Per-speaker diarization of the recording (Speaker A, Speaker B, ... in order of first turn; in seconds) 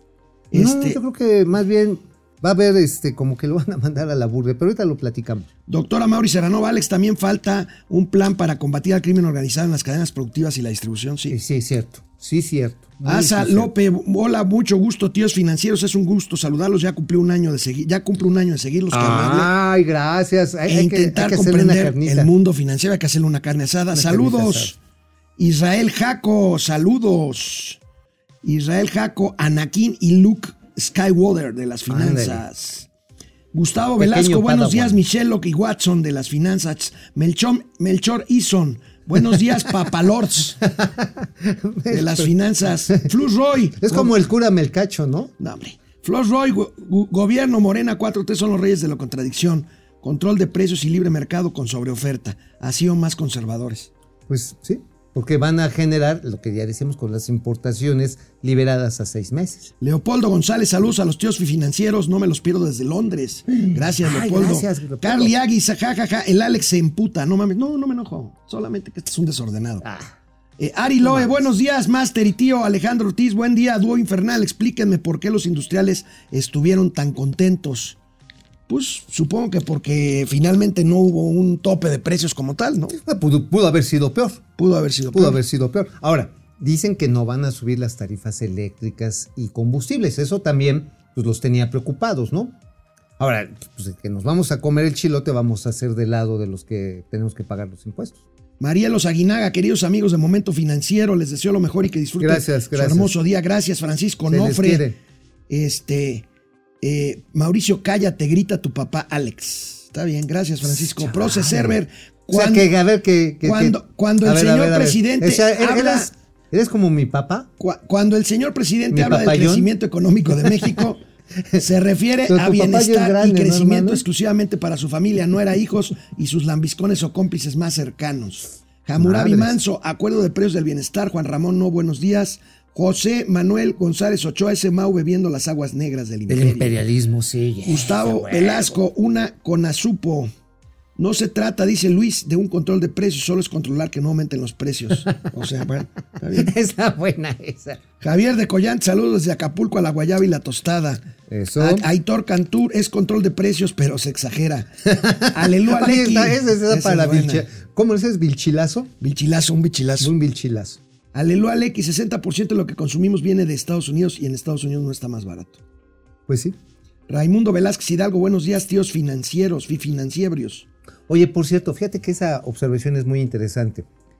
Speaker A: 0.5-1.0, 5.7-11.4, 13.1-19.5, 20.7-24.8, 25.4-27.8, 28.4-32.9, 33.5-40.6, 41.9-44.1, 45.4-53.9, 59.8-69.8, 70.6-78.0, 78.7-83.0, 84.6-85.4, 98.6-104.8, 105.5-106.2, 106.8-112.7, 113.4-116.1, 117.6-121.0, 121.6-136.7, 137.6-140.3, 141.0-146.5, 148.0-151.0, 151.6-154.7, 155.3-157.4, 159.0-160.1, 161.1-165.6, 167.1-170.7
Speaker B: 0.5-5.5, 11.3-13.7, 18.9-22.3, 23.9-24.8, 31.9-32.4, 34.0-35.0, 40.6-42.3, 43.8-45.3, 54.3-59.7, 64.0-65.3, 69.8-70.1, 71.0-71.5, 83.0-84.5, 85.1-92.5, 93.2-98.2, 102.2-103.1, 104.3-105.0, 110.6-111.8, 112.3-117.5, 118.9-119.7, 120.3-120.8, 122.3-124.0, 129.0-129.6, 136.3-138.8, 145.0-145.3, 146.3-147.8, 151.3-151.9, 154.9-158.9, 160.0-160.8, 166.3-166.6, 171.1-173.9